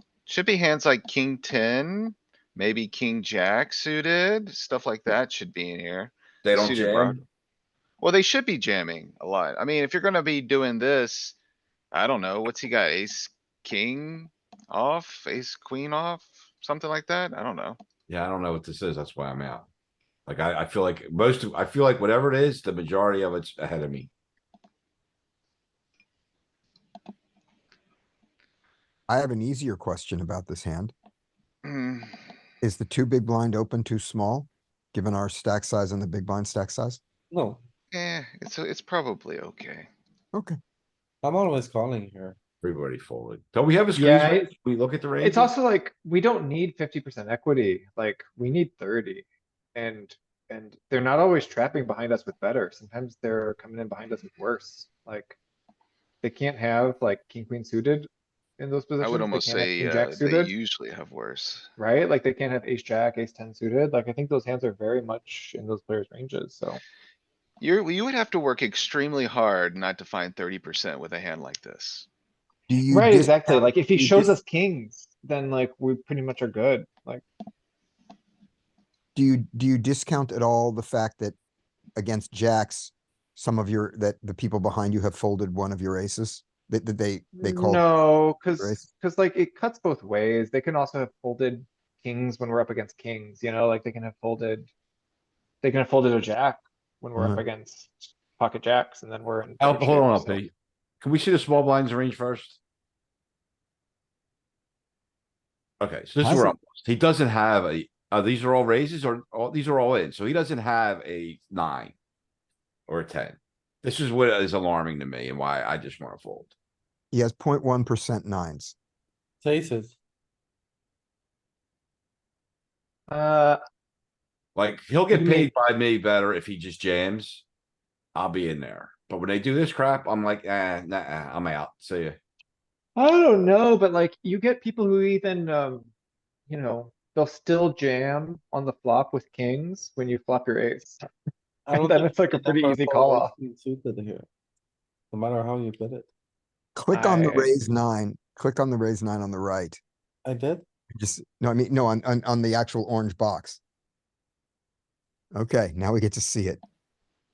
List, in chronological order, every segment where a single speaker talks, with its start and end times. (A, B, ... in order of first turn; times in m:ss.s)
0:00.2-0:07.2 A
0:06.4-0:07.2 B
0:08.0-0:11.4 A
0:11.9-0:17.8 A
0:18.1-0:19.7 B
0:20.2-0:24.1 B
0:29.1-0:30.9 C
0:31.6-0:32.1 A
0:32.6-0:37.0 C
0:37.3-0:37.6 D
0:37.9-0:39.9 A
0:40.3-0:40.6 C
0:41.2-0:42.4 D
0:42.6-0:45.5 B
0:43.9-0:44.5 E
0:45.2-0:55.4 E
0:56.2-0:58.1 E
0:58.6-1:00.5 E
0:59.0-1:01.7 A
1:01.8-1:06.8 E
1:07.6-1:12.1 A
1:12.7-1:14.3 C
1:12.9-1:17.2 E
1:19.1-1:21.3 C
1:22.0-1:27.9 C
1:27.4-1:34.7 E
1:28.6-1:28.8 C
1:35.6-1:40.4 E
1:37.2-1:37.4 C
1:39.6-1:42.6 B
1:45.8-1:52.0 B
1:46.2-1:46.5 C
1:52.9-1:56.5 B
1:57.1-1:58.7 C
1:59.4-2:00.0 D
2:03.1-2:03.6 E
2:04.5-2:07.4 B
2:05.1-2:05.5 E
2:08.1-2:12.2 B
2:13.0-2:15.9 E
2:16.5-2:21.0 E
2:21.6-2:24.3 D
2:21.7-2:23.3 E
2:25.1-2:26.1 D
2:26.8-2:29.8 C
2:26.9-2:27.5 E
2:30.2-2:30.6 D
2:31.0-2:33.6 C
2:35.3-2:36.6 C